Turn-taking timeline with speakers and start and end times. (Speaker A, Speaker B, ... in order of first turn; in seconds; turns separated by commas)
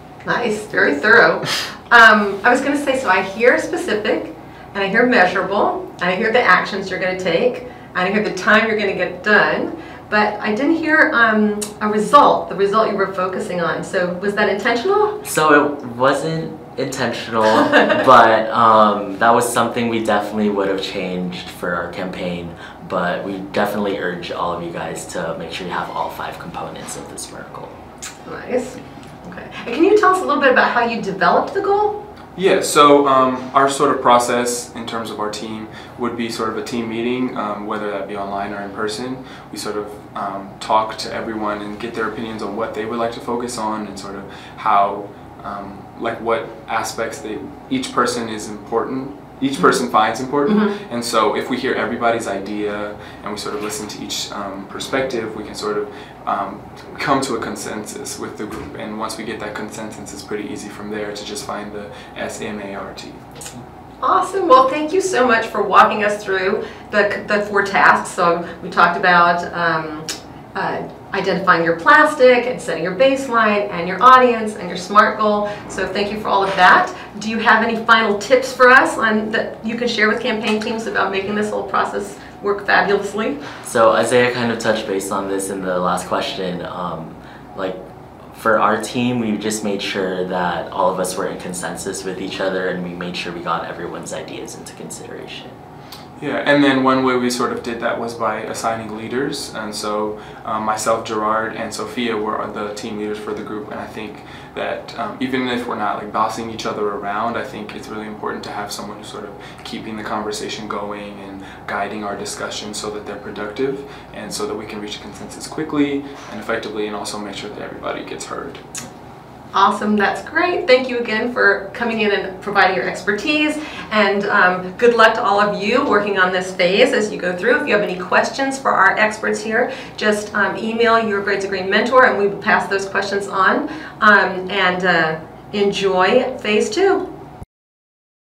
Speaker A: 0.2-15.2, Speaker B: 15.2-27.7, Speaker A: 28.2-32.0, Speaker C: 32.4-63.2, Speaker A: 50.5-50.8, Speaker A: 64.0-83.4, Speaker B: 83.6-87.8, Speaker B: 88.3-95.5, Speaker C: 96.2-118.6, Speaker A: 119.5-137.0